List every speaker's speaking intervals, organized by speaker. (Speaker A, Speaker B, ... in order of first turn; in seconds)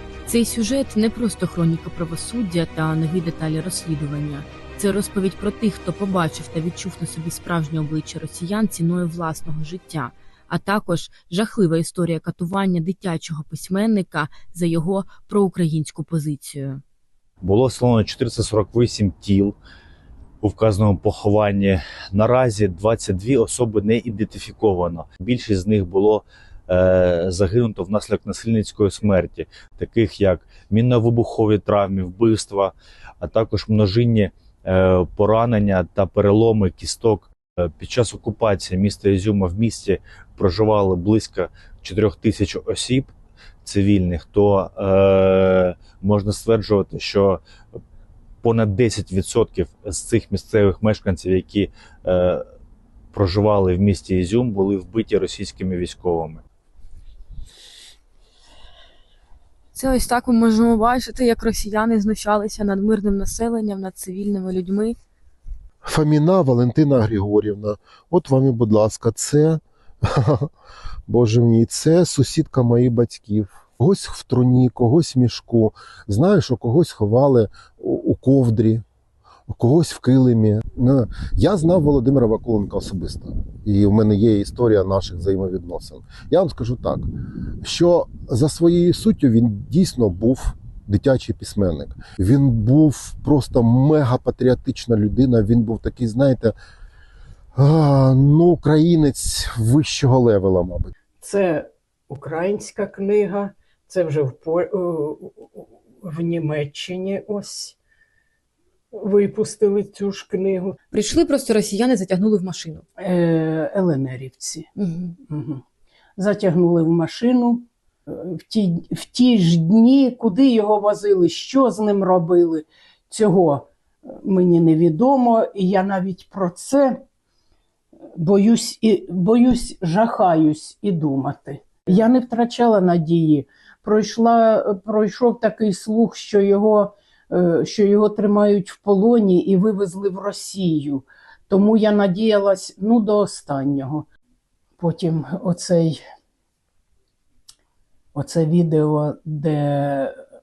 Speaker A: 0.3-16.8, 59.7-65.0, 110.9-112.8, 114.8-115.1
Speaker B: 17.4-19.6, 20.4-43.1, 43.6-47.4, 48.4-52.4, 53.1-56.4
Speaker C: 65.8-70.5, 71.1-78.8, 79.5-87.1, 87.6-96.5, 97.5-100.9
Speaker D: 101.2-107.8, 108.9-110.8, 113.0-114.7, 115.3-115.6, 116.2-127.0, 128.2-144.0, 144.8-146.0, 148.1-150.1